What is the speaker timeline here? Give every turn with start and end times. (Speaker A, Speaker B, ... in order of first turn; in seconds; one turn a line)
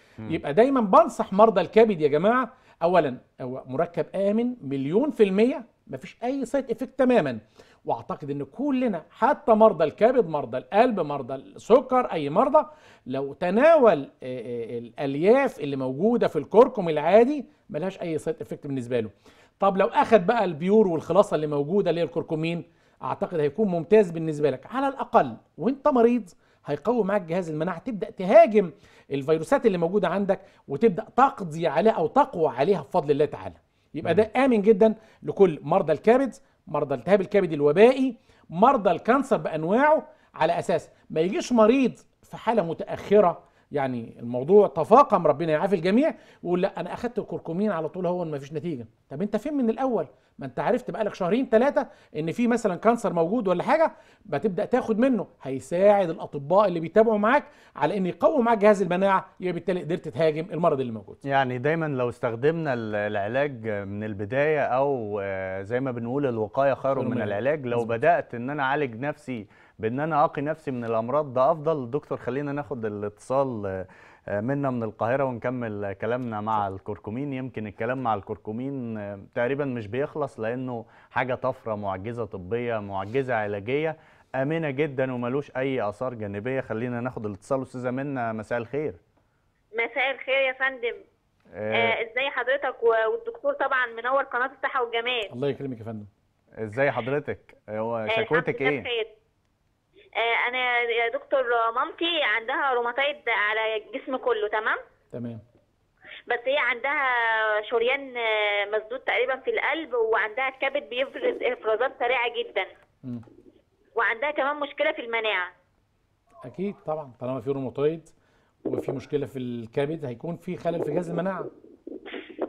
Speaker A: 0.3-61.2
Speaker B: 61.2-89.0
Speaker A: 67.0-67.9
Speaker C: 89.8-91.0
Speaker B: 91.5-92.0
Speaker C: 91.7-95.3
Speaker A: 95.3-96.1
Speaker B: 96.6-98.8
Speaker C: 98.1-99.1
Speaker C: 100.2-104.8
Speaker A: 105.1-105.4
Speaker C: 106.3-112.7
Speaker C: 114.0-115.5
Speaker A: 116.4-118.1
Speaker A: 118.7-121.5